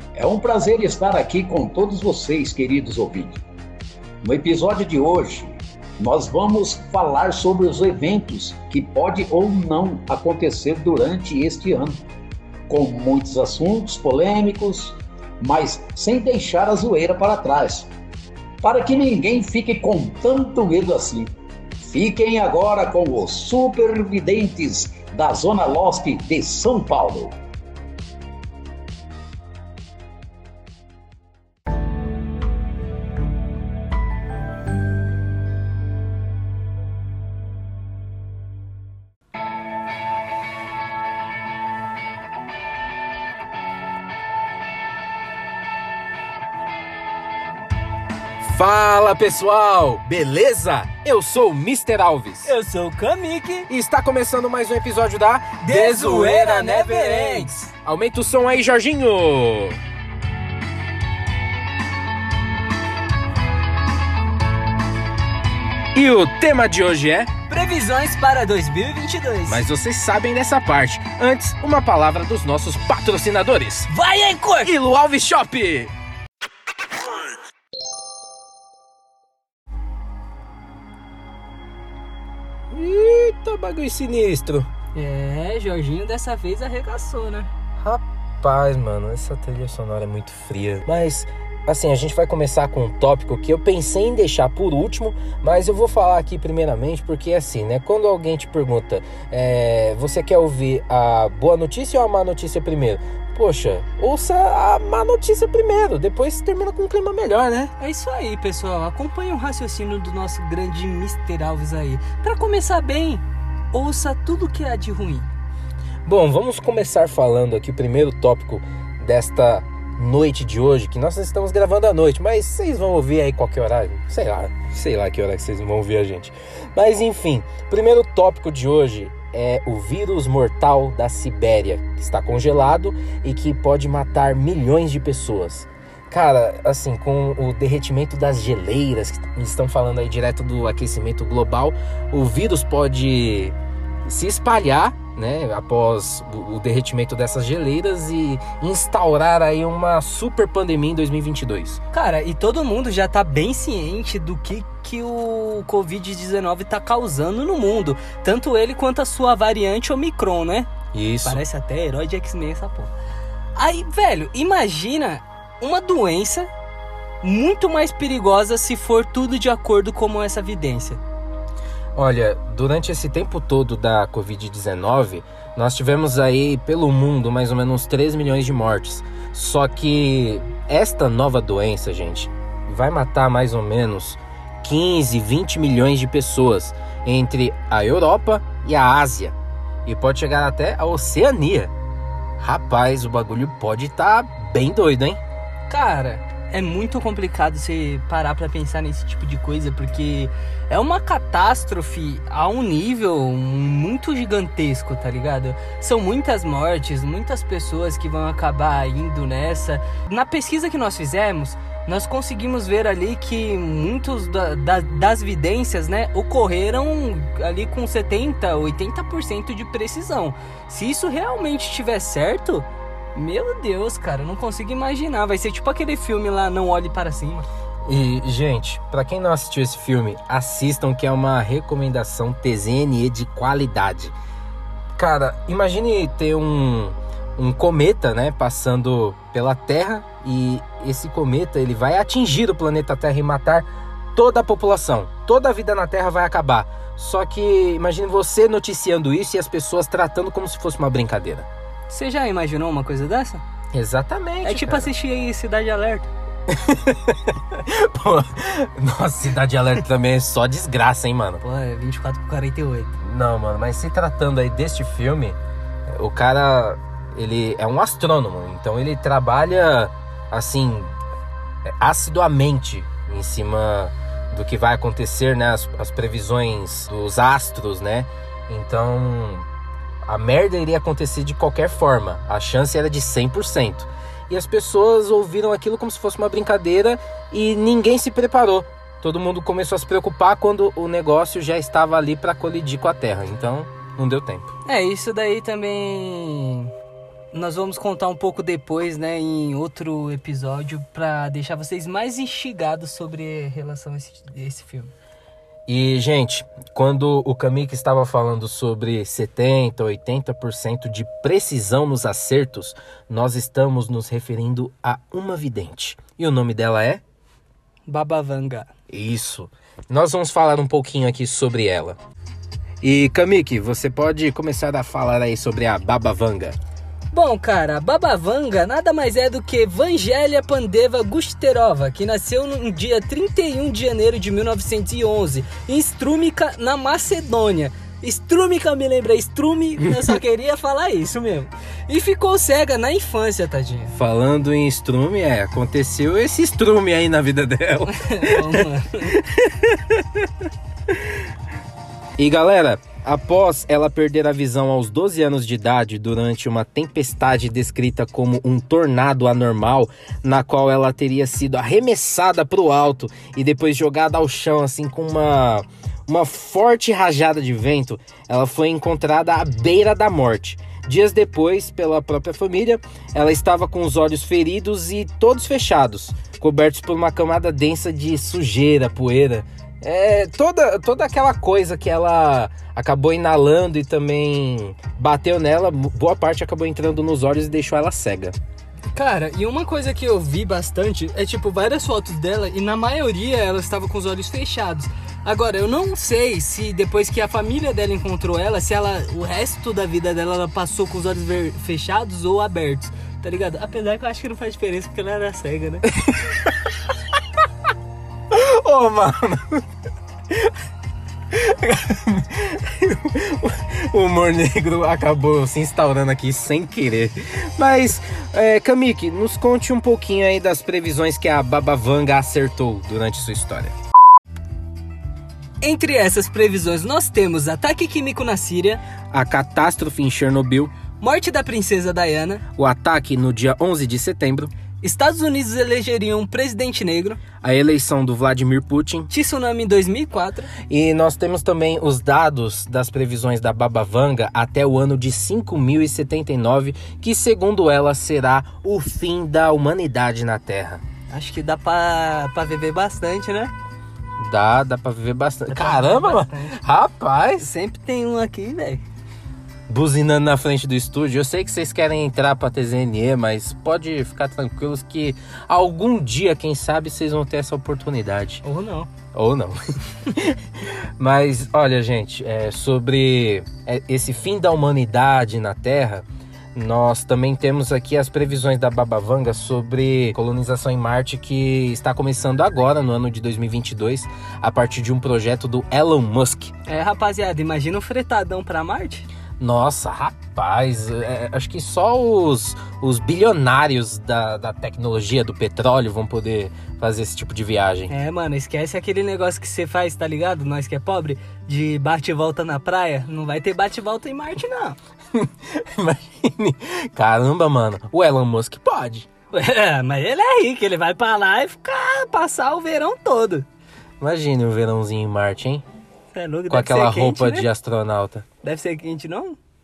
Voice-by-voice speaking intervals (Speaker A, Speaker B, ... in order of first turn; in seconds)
Speaker A: 0.1-3.4, 4.2-12.0, 12.7-17.9, 18.6-27.4
Speaker B: 48.4-52.5, 53.7-59.8, 65.9-67.3, 69.5-73.9, 74.6-75.9, 82.7-84.7, 87.8-107.7, 116.0-143.5, 144.1-151.8, 160.9-161.4, 171.9-191.7, 192.4-195.2, 227.8-234.1, 235.0-251.5, 253.7-254.9, 256.5-261.4, 263.0-265.4, 265.9-270.9, 271.7-279.5, 280.1-294.5, 305.7-317.0, 318.9-322.0, 322.8-326.6, 343.9-350.3, 352.2-388.4, 405.9-406.7, 408.3-409.6, 411.3-423.7, 429.1-430.7, 432.5-434.5, 437.4-439.1, 440.7-450.8, 454.2-457.5, 459.7-468.4, 469.1-486.5, 489.4-497.9, 505.1-509.1, 514.0-515.6, 516.5-518.2
Speaker C: 52.4-53.7, 55.6-57.7, 67.5-69.6, 73.9-74.7, 84.9-87.5, 107.8-115.3, 151.9-160.7, 161.2-162.9, 163.6-166.5, 167.2-171.0, 195.7-227.5, 251.9-253.4, 254.4-256.1, 261.4-263.0, 294.6-296.7, 297.3-304.9, 317.9-318.7, 327.1-343.9, 347.9-349.2, 388.9-405.9, 425.6-428.8, 431.0-432.4, 434.8-437.2, 439.1-440.5, 451.1-453.5, 455.5-456.6, 457.4-458.8, 468.4-468.9, 486.6-489.1, 497.9-504.8, 509.3-513.5, 516.1-517.5, 518.4-519.4